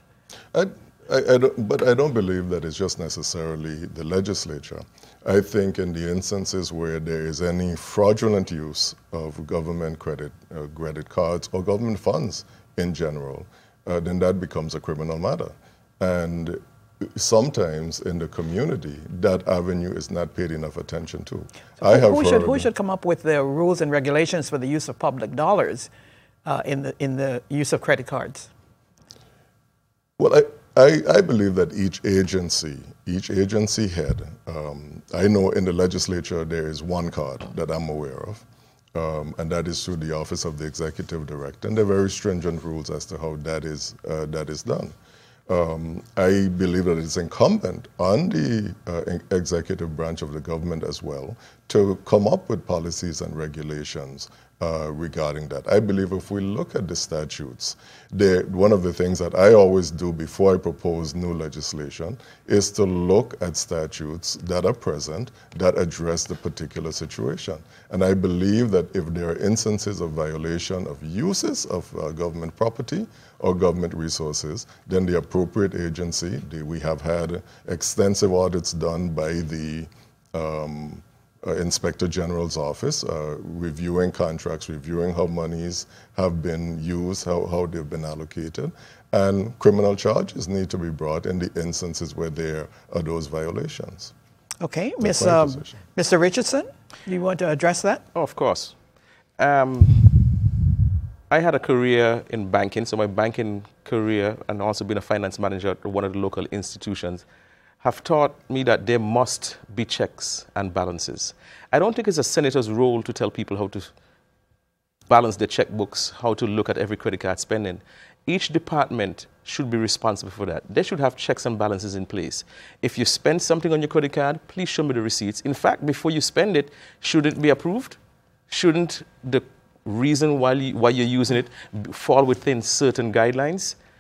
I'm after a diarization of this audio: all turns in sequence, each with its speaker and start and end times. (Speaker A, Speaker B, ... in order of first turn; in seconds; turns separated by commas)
Speaker A: 0.5-22.7, Speaker B: 21.8-25.9, Speaker B: 26.4-28.5, Speaker A: 30.2-44.9, Speaker A: 45.5-94.1, Speaker B: 94.6-98.0, Speaker A: 95.0-95.8, Speaker C: 98.1-98.7, Speaker C: 99.4-100.5, Speaker C: 101.3-107.2, Speaker C: 107.8-113.9, Speaker C: 115.1-128.0, Speaker C: 128.5-133.8